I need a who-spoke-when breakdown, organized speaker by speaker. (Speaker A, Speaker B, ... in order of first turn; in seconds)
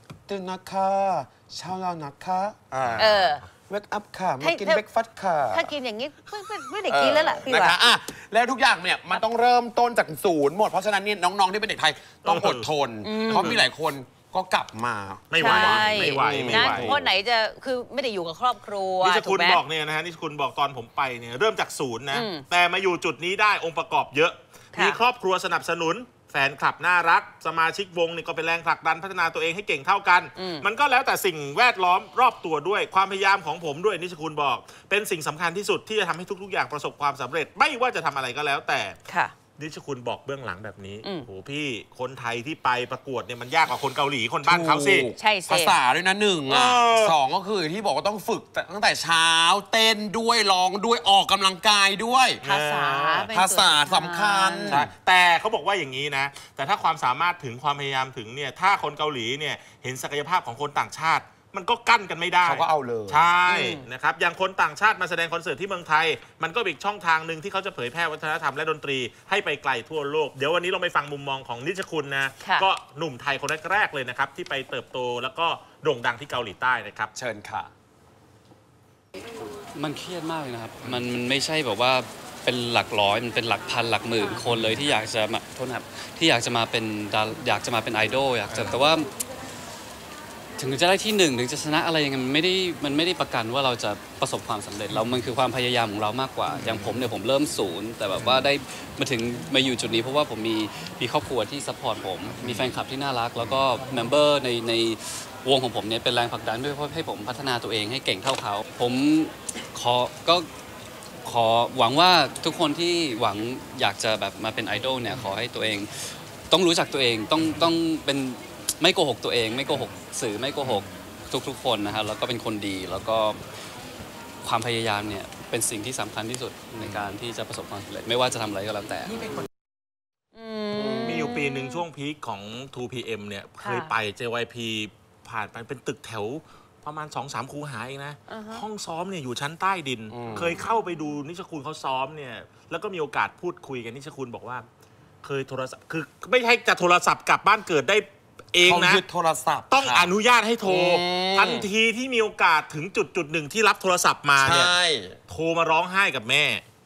Speaker A: 0.3-5.7, 6.9-17.1, 44.5-52.4, 53.3-54.9, 62.4-63.3, 77.1-77.7, 130.7-131.3, 140.1-140.6, 148.6-150.1, 150.6-151.7, 154.4-155.2
Speaker B: 2.7-3.4, 12.2-12.7, 13.3-13.6, 15.3-17.0, 19.0-39.0, 39.6-45.1, 46.5-47.2, 52.4-53.3, 54.7-77.1, 88.5-88.8, 102.4-102.7, 131.0-144.6, 145.2-149.0, 149.7-154.7, 155.3-156.6
Speaker C: 3.0-3.4, 4.4-4.8, 5.5-7.8, 13.0-13.6, 15.4-19.6, 22.1-22.4, 24.7-25.0, 30.4-30.7, 39.1-39.3, 45.1-45.8, 52.4-54.8, 63.5-63.9, 72.4-72.7, 130.3-131.8, 133.6-133.9, 138.3-138.6
Speaker D: 79.7-89.1, 90.6-110.5, 111.2-115.9, 116.5-123.4, 124.4-129.4